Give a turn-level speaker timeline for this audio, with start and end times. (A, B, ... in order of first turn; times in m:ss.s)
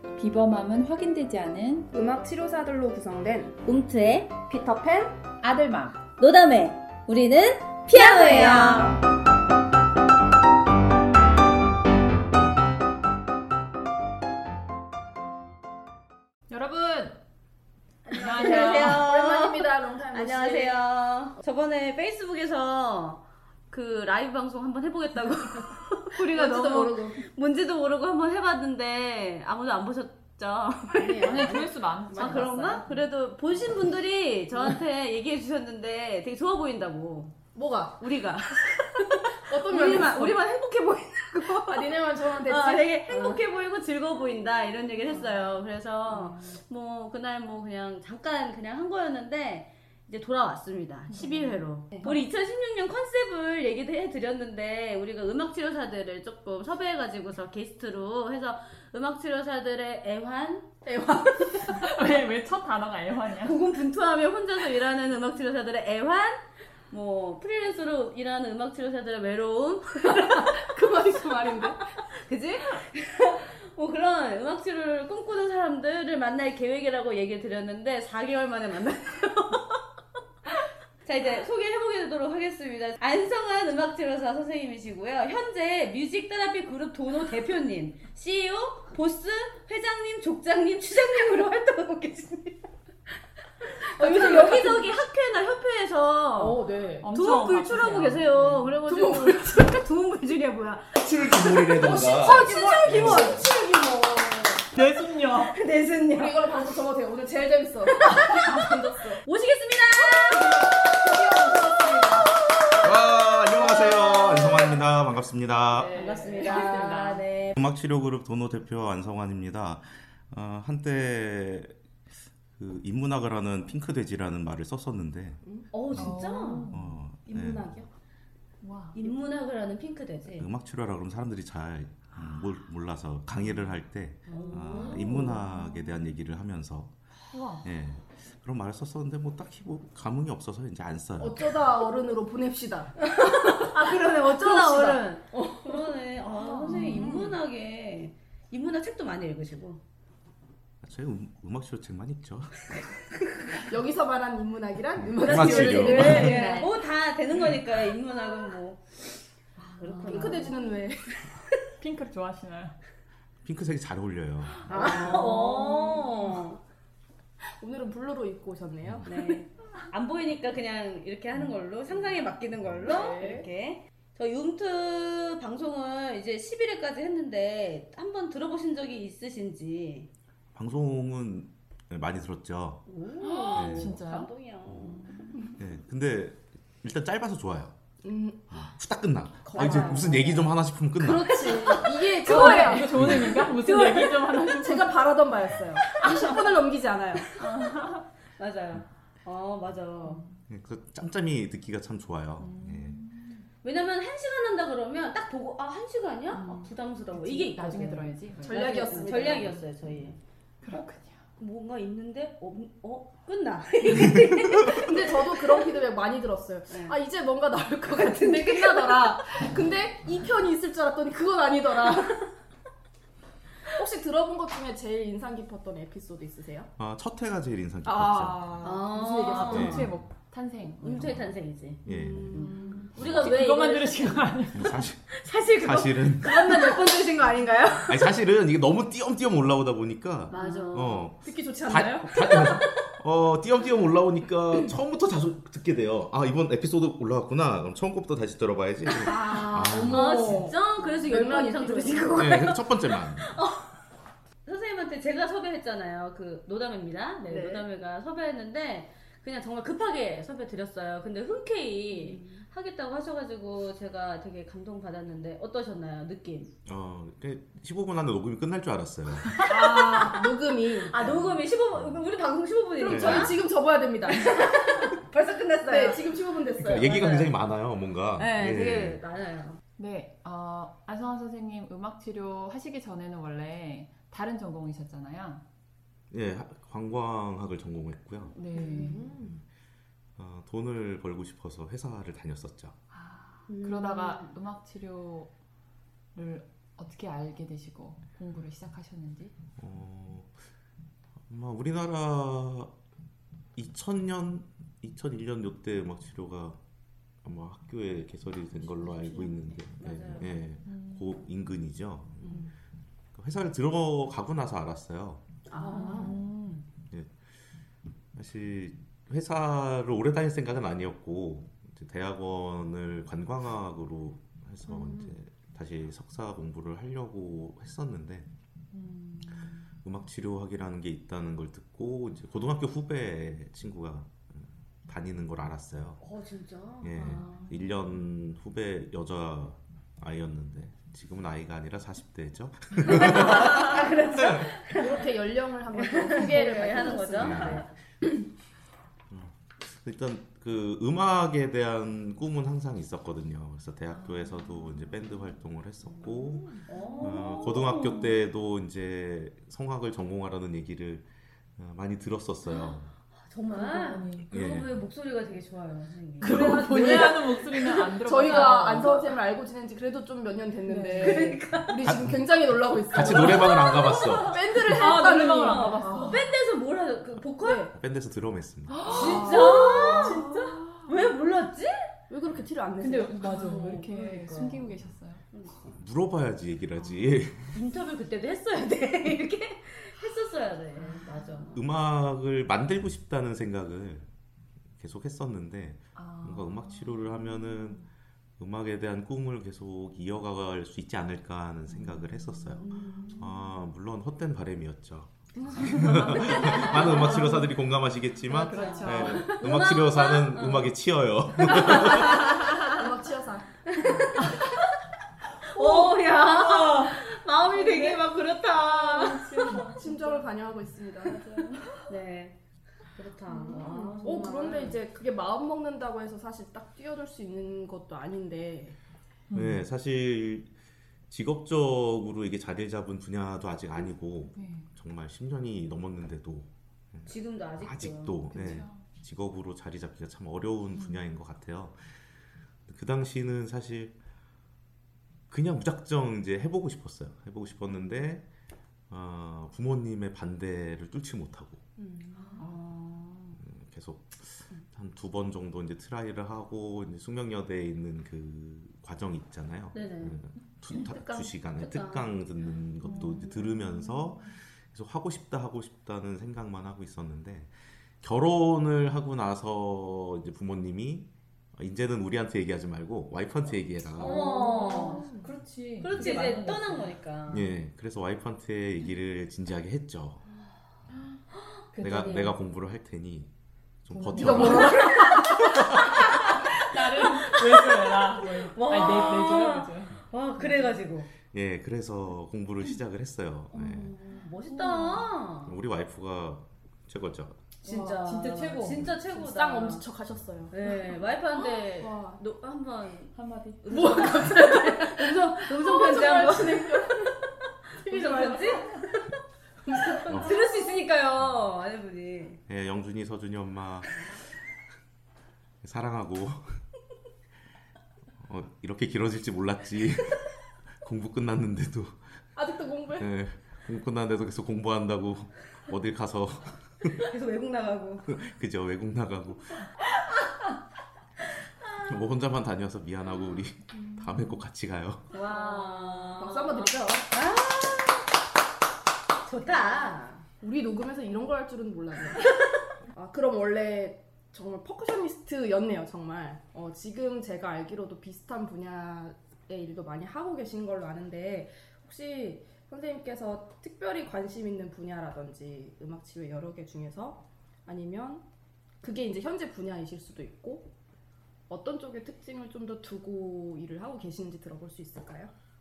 0:00.2-0:01.9 A
0:01.9-0:03.6 B
0:03.6-0:04.3 C
0:04.4-0:05.2 B
0:05.4-0:06.0 A
0:06.2-0:09.0 C
0:07.9-0:09.0 A
0:16.5-0:17.2 A
0:18.0-0:37.4 C
0:18.1-0:19.1 A
0:18.1-0:20.8 B
0:26.2-0:27.2 B
0:31.0-0:31.3 B
0:31.2-0:33.0 A
0:32.2-0:32.4 B
0:37.5-0:38.0 B
0:38.0-1:00.9 C
0:39.2-0:40.4 B
0:41.4-0:43.4 B
0:45.1-0:45.6 B
0:46.1-0:46.5 B
0:51.1-0:52.2 B
1:00.8-1:01.9 B
1:01.7-1:03.6 A
1:03.4-1:10.6 C
1:10.0-1:12.0 B
1:11.6-1:19.8 C
1:20.4-1:32.7 C
1:33.6-1:44.7 C
1:33.8-1:35.0 B
1:37.0-1:38.8 A
1:38.8-1:39.8 B
1:41.0-1:43.4 D
1:41.5-1:43.4 B
1:44.7-1:45.6 A
1:45.4-1:46.4 C
1:46.1-1:49.2 B
1:48.0-1:48.6 C
1:49.2-1:50.6 C
1:50.0-1:52.9 B
1:52.4-1:54.7 C
1:52.8-1:55.9 D
1:53.6-1:54.4 B
1:55.7-1:57.2 A
1:55.8-1:57.0 B
1:55.9-1:57.5 C
1:57.5-2:01.7 D
2:02.6-2:05.4 D
2:05.4-2:05.7 B
2:05.7-2:06.7 C
2:05.9-2:06.2 D
2:05.9-2:07.0 A
2:06.7-2:07.8 D
2:07.2-2:07.9 B
2:08.6-2:09.0 A
2:09.0-2:10.5 C
2:10.4-2:16.9 D
2:14.3-2:15.3 C
2:14.3-2:15.5 B
2:17.3-2:17.7 A
2:17.6-2:21.6 D
2:21.2-2:25.9 B
2:23.0-2:29.8 C
2:26.3-2:27.3 A
2:26.7-2:27.4 B
2:30.8-2:32.6 D
2:33.6-2:36.8 B
2:35.0-2:36.5 D
2:35.2-2:40.6 C
2:36.2-2:36.7 A
2:39.9-2:40.4 A
2:39.9-2:41.2 B
2:41.8-2:42.8 A
2:43.4-2:44.6 D
2:44.7-2:46.4 B
2:44.7-2:46.6 C
2:47.6-2:49.4 B
2:49.0-3:00.1 C
2:52.8-2:53.5 B
3:00.5-3:02.8 D
3:02.9-3:05.4 C
3:03.2-3:04.3 A
3:03.5-3:04.0 D
3:04.6-3:05.0 D
3:04.8-3:05.4 A
3:05.6-3:07.8 D
3:08.0-3:08.6 B
3:08.5-3:11.6 D
3:09.4-3:10.4 C
3:09.5-3:10.4 B
3:11.0-3:12.9 C
3:11.0-3:17.4 B
3:12.2-3:15.0 A
3:12.9-3:13.5 D
3:13.4-3:14.1 C
3:15.8-3:16.5 C
3:17.4-3:20.2 C
3:17.4-3:18.0 A
3:20.5-3:23.0 D
3:22.4-3:23.4 A
3:23.6-3:30.2 C
3:26.3-3:29.5 A
3:28.4-3:29.6 B
3:30.6-3:31.2 A
3:31.4-3:35.8 C
3:34.7-3:42.3 B
3:36.7-3:37.0 C
3:37.9-3:39.2 C
3:43.7-3:46.7 B
3:46.8-3:48.4 D
3:47.8-3:49.9 B
3:48.6-3:49.9 C
3:49.0-3:51.2 A
3:49.4-3:49.9 D
3:50.8-3:58.1 C
3:50.9-3:51.2 D
3:51.8-3:52.4 D
3:51.8-3:53.0 B
3:53.0-3:53.4 D
3:53.0-3:54.8 A
3:54.5-3:56.3 D
3:56.2-3:57.8 B
3:57.9-4:10.4 D
4:00.3-4:01.1 C
4:00.3-4:02.6 B
4:02.1-4:02.8 C
4:08.9-4:13.8 C
4:09.0-4:12.3 B
4:12.2-4:13.3 D
4:14.4-4:26.5 C
4:17.3-4:17.6 B
4:21.9-4:22.4 B
4:26.6-4:29.4 D
4:29.4-4:33.4 C
4:29.4-4:31.4 B
4:32.8-4:35.0 B
4:32.8-4:33.3 D
4:34.1-4:37.3 C
4:35.7-4:37.3 B
4:36.6-4:39.0 D
4:38.2-4:39.0 B
4:38.3-4:39.6 C
4:39.8-4:45.4 A
4:46.1-4:48.3 D
4:48.4-4:49.0 A
4:48.5-4:49.3 B
4:48.5-4:49.2 C
4:50.2-4:52.7 D
4:52.9-4:55.3 A
4:53.5-4:54.4 C
4:56.1-4:59.3 A
4:59.6-5:00.3 D
5:01.3-5:02.7 D
5:03.6-5:06.6 D
5:07.2-5:12.5 D
5:09.6-5:10.3 C
5:10.6-5:11.2 A
5:13.1-5:15.2 D
5:15.5-5:16.2 C
5:15.6-5:16.6 A
5:18.1-5:28.3 D
5:24.7-5:25.2 C
5:28.7-5:29.6 A
5:29.8-5:36.0 D
5:36.0-5:37.7 C
5:36.8-5:44.5 D
5:42.8-5:45.1 C
5:44.7-5:48.2 B
5:45.7-5:47.7 C
5:46.3-5:46.5 A
5:47.1-5:47.7 D
5:49.1-6:02.9 D
5:54.0-5:54.9 A
5:56.5-5:58.2 C
5:56.8-5:57.0 A
6:03.2-6:07.5 C
6:03.5-6:04.3 A
6:04.3-6:04.7 D
6:06.2-6:09.2 A
6:06.2-6:16.1 B
6:08.1-6:08.6 C
6:10.7-6:11.3 A
6:11.0-6:12.0 C
6:11.8-6:12.3 D
6:12.9-6:14.6 D
6:13.0-6:17.7 C
6:14.7-6:16.3 A
6:17.4-6:17.7 B
6:17.7-6:18.8 D
6:18.7-6:20.9 A
6:18.8-6:20.4 B
6:18.8-6:21.9 C
6:22.1-6:23.5 B
6:22.8-6:25.2 A
6:23.2-6:24.7 C
6:25.3-6:25.7 C
6:25.7-6:27.6 D
6:27.5-6:31.6 C
6:30.8-6:31.5 A
6:31.5-6:34.1 D
6:34.8-6:37.8 D
6:36.0-6:37.8 A
6:38.4-6:52.3 D
6:41.7-6:43.1 A
6:42.6-6:43.3 C
6:45.4-6:47.5 B
6:45.5-6:47.5 A
6:46.5-6:47.4 C
6:48.3-6:49.4 B
6:48.3-6:49.3 A
6:48.3-6:50.7 C
6:51.4-6:52.7 C
6:52.1-6:54.0 B
6:53.6-6:54.8 C
6:55.5-6:59.6 C
6:55.6-6:58.0 A
6:58.6-7:01.8 A
6:59.7-7:01.2 B
7:01.9-7:02.4 C
7:02.9-7:04.8 C
7:03.3-7:08.8 B
7:09.3-7:09.6 A
7:09.3-7:10.5 D
7:11.1-7:22.1 D
7:14.3-7:14.7 A
7:17.1-7:18.5 C
7:18.3-7:18.8 A
7:20.7-7:21.1 A
7:22.7-7:23.9 D
7:25.3-7:28.2 D
7:28.9-7:31.6 D
7:31.8-7:32.5 B
7:32.3-7:33.4 C
7:33.4-7:54.2 D
7:39.7-7:42.1 C
7:42.8-7:44.3 A
7:42.9-7:43.2 C
7:53.9-7:55.1 C
7:54.0-7:56.9 A
7:54.4-7:55.3 B
7:55.8-7:57.5 C
7:55.8-7:56.2 D
7:57.3-8:00.2 D
8:01.7-8:02.3 A
8:01.8-8:02.3 C
8:01.8-8:03.3 D
8:03.8-8:06.0 D
8:03.9-8:04.7 A
8:04.1-8:05.6 B
8:04.3-8:11.1 C
8:06.5-8:10.7 A
8:11.3-8:13.9 D
8:13.5-8:15.6 C
8:14.4-8:15.1 A
8:15.4-8:17.4 D
8:17.6-8:19.8 C
8:17.7-8:18.0 B
8:17.7-8:18.9 A
8:18.9-8:22.2 B
8:20.5-8:27.2 C
8:23.1-8:23.6 A
8:23.7-8:27.2 B
8:27.8-8:29.2 C
8:27.8-8:28.8 B
8:29.6-8:30.8 B
8:29.8-8:32.4 C
8:30.1-8:30.4 D
8:32.5-8:34.0 D
8:35.6-8:36.6 D
8:38.2-8:42.2 D
8:42.3-8:43.1 B
8:43.0-8:47.0 D
8:46.9-8:48.1 C
8:48.1-8:49.6 D
8:51.5-8:52.0 C
8:51.8-8:55.0 D
8:55.1-8:58.1 C
8:55.2-8:57.1 B
8:59.2-9:00.2 C
8:59.5-9:02.3 B
9:02.9-9:18.2 B
9:18.8-9:20.7 B
9:21.5-9:25.3 B